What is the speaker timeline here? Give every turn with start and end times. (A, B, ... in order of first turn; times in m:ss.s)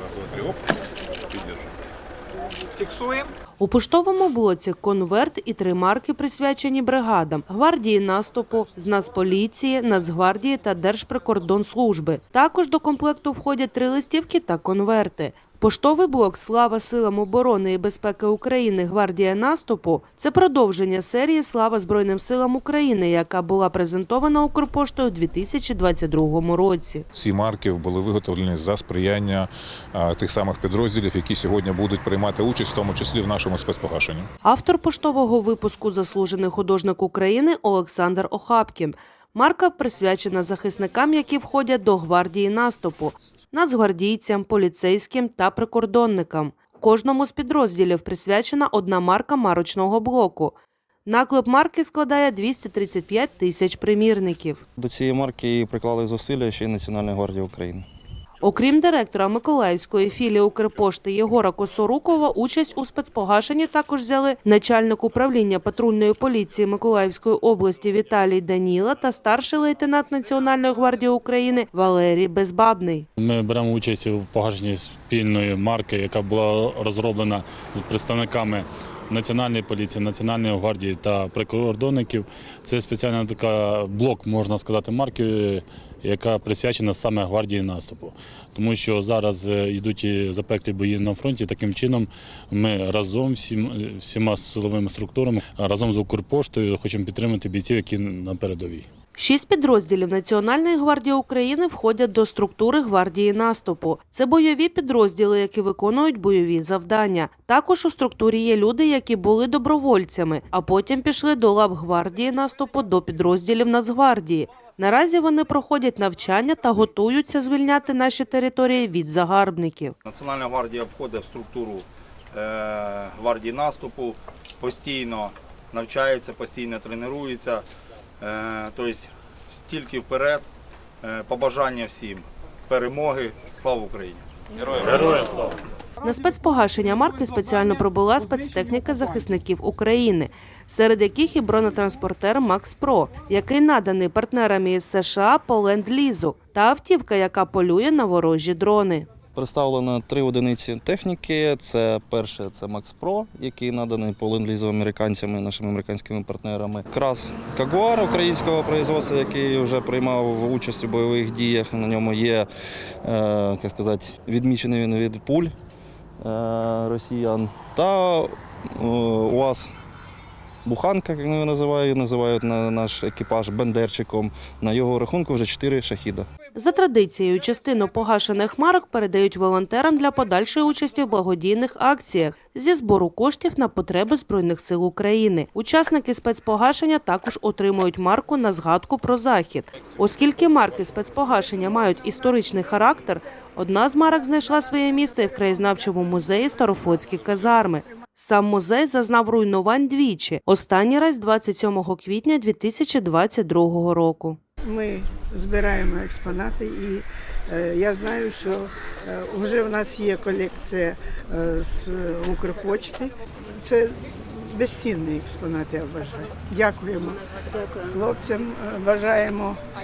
0:03.6-0:27.0 A
0:27.1-0:34.3 B
0:34.4-0:54.6 A
0:54.8-0:57.8 C
0:58.4-1:13.1 A
1:13.2-1:38.9 D
1:39.2-2:00.0 A
2:00.0-2:07.6 E
2:08.2-2:10.5 E
2:11.0-2:15.2 E
2:15.1-2:15.5 D
2:16.0-2:29.1 A
2:29.3-2:42.5 C
2:43.0-2:45.5 C
2:46.2-2:49.7 C
2:50.6-2:56.3 C
2:56.5-3:24.4 A
3:24.6-3:39.6 F